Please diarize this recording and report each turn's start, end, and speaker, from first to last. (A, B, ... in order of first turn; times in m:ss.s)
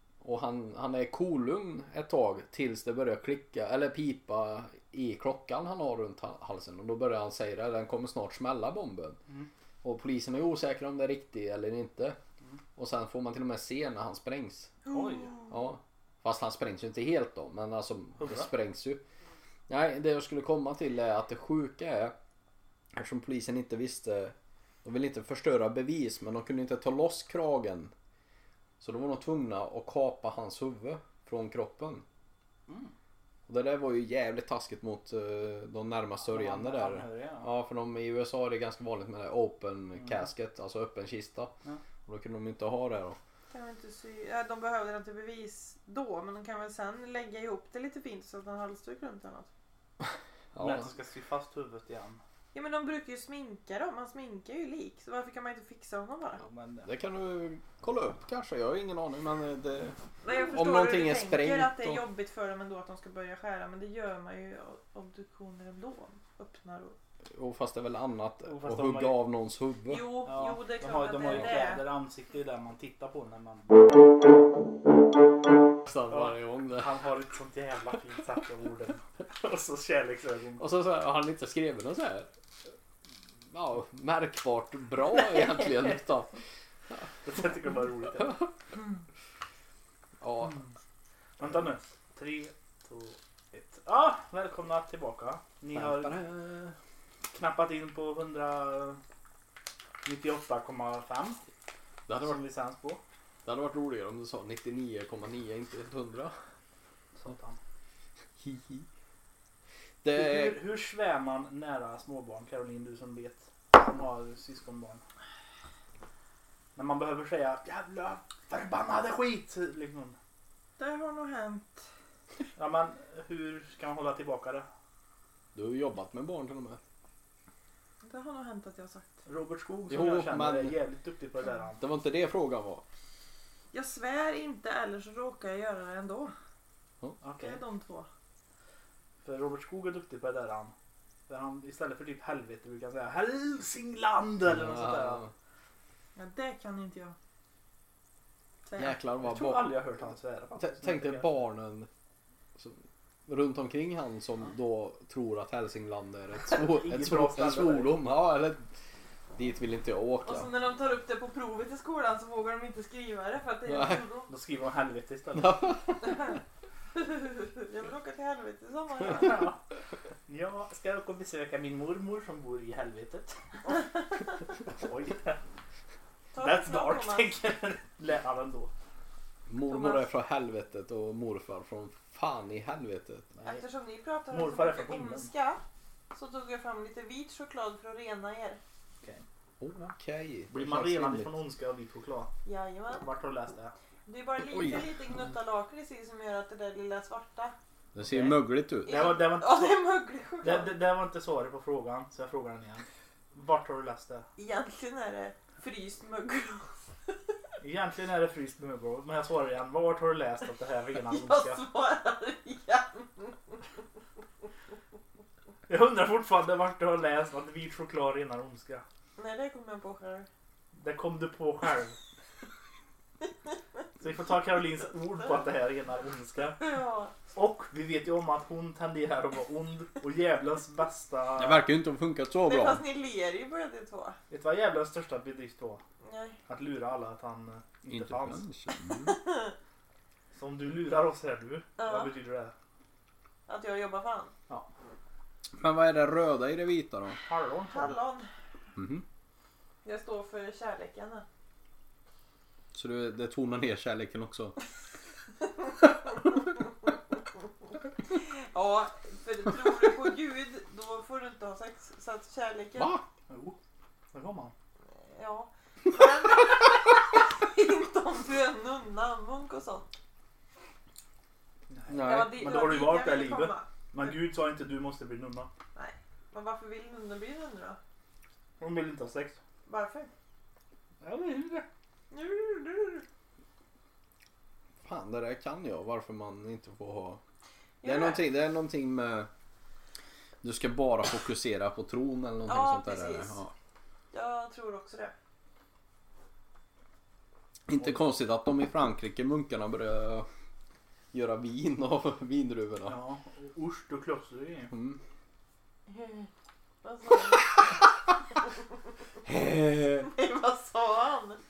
0:00.2-0:09.2 A
0:09.8-0:12.2 A
0:12.8-0:14.8 A
0:14.8-0:15.5 B
0:14.9-0:15.4 C
0:15.5-0:19.0 A
0:18.2-0:18.5 C
0:19.7-0:22.1 A
0:22.9-0:27.9 A
0:28.8-0:32.0 A
0:33.5-0:41.5 A
0:36.2-0:37.5 C
0:42.0-0:43.2 A
0:43.5-0:49.5 B
0:50.5-0:50.9 A
0:50.6-0:52.2 C
0:52.5-0:56.4 B
0:56.4-0:56.9 C
0:56.8-1:02.0 A
1:00.2-1:07.0 B
1:07.3-1:10.1 A
1:08.4-1:09.2 C
1:09.9-1:11.8 B
1:10.3-1:13.8 C
1:15.8-1:16.9 A
1:16.1-1:20.6 C
1:20.6-1:22.3 A
1:23.5-1:26.3 A
1:25.1-1:25.8 C
1:27.2-1:28.5 C
1:30.2-1:30.6 A
1:31.4-1:36.2 C
1:35.7-1:36.8 A
1:37.3-1:39.0 C
1:40.0-1:41.4 C
1:42.1-1:42.4 A
1:42.1-1:43.0 C
1:43.4-1:46.4 A
1:47.2-1:47.6 C
1:48.4-1:48.9 A
1:50.0-1:50.6 A
1:50.1-1:55.0 C
1:56.8-2:00.2 C
2:00.8-2:01.9 B
2:02.6-2:04.6 C
2:05.5-2:06.8 A
2:08.0-2:09.1 B
2:09.2-2:11.8 C
2:09.9-2:10.8 A
2:11.8-2:12.8 A
2:13.7-2:16.3 B
2:17.2-2:17.6 C
2:17.4-2:18.1 B
2:19.2-2:20.7 C
2:21.3-2:25.3 C
2:24.5-2:25.3 A
2:26.2-2:27.2 B
2:28.6-2:29.0 B
2:28.8-2:29.8 A
2:29.2-2:31.4 C
2:30.6-2:31.9 A
2:32.6-2:38.7 A
2:36.5-2:37.9 C
2:39.4-2:40.5 A
2:40.2-2:44.3 B
2:43.6-2:44.0 A
2:44.3-2:45.7 C
2:45.3-2:46.3 A
2:47.0-2:49.5 B
2:49.0-2:49.6 C
2:50.3-2:53.8 C
2:54.7-2:55.4 C
2:56.3-2:57.3 B
2:56.4-2:58.7 C
2:59.5-3:03.3 A
2:59.6-3:00.1 B
3:03.4-3:03.6 C
3:03.4-3:05.6 B
3:04.3-3:05.3 C
3:06.1-3:08.6 B
3:09.6-3:11.4 A
3:10.5-3:12.3 C
3:12.4-3:13.1 B
3:13.0-3:13.7 C
3:14.1-3:17.6 B
3:14.5-3:14.9 A
3:17.9-3:19.2 A
3:18.0-3:19.8 C
3:18.9-3:20.8 B
3:20.4-3:24.2 C
3:24.4-3:27.4 B
3:27.6-3:31.6 C
3:31.0-3:33.6 B
3:35.7-3:38.8 C
3:39.2-3:40.3 B
3:40.8-3:42.0 C
3:44.0-3:46.6 C
3:46.6-3:47.1 B
3:47.3-3:51.6 C
3:51.4-3:52.8 A
3:52.4-3:54.2 B
3:54.3-3:55.8 C
3:56.0-3:56.4 B
3:56.5-3:58.4 C
3:57.9-3:59.2 A
3:59.0-3:59.5 B
4:00.3-4:02.5 C
4:01.8-4:02.1 B
4:03.5-4:04.3 B
4:05.6-4:07.2 A
4:07.3-4:07.9 C
4:07.7-4:08.3 B
4:08.8-4:09.0 A
4:09.8-4:11.2 B
4:12.7-4:14.6 A
4:18.2-4:22.9 B
4:22.8-4:23.0 A
4:23.3-4:23.6 C
4:24.1-4:24.5 C
4:24.9-4:29.9 B
4:31.7-4:35.5 C
4:31.9-4:32.5 A
4:32.0-4:34.1 B
4:35.7-4:37.8 B
4:38.6-4:39.4 C
4:39.6-4:40.1 B
4:41.0-4:41.6 C
4:42.1-4:43.0 B
4:44.8-4:47.2 A
4:47.8-4:48.2 B
4:47.8-4:49.3 A
4:50.4-4:53.5 A
4:52.4-4:53.4 B
4:54.1-4:55.1 B
4:57.7-5:00.3 A
5:01.1-5:03.0 A
5:02.9-5:04.7 C
5:04.7-5:05.0 A
5:05.9-5:06.3 B
5:06.8-5:07.6 B
5:09.2-5:10.1 A
5:10.0-5:11.4 B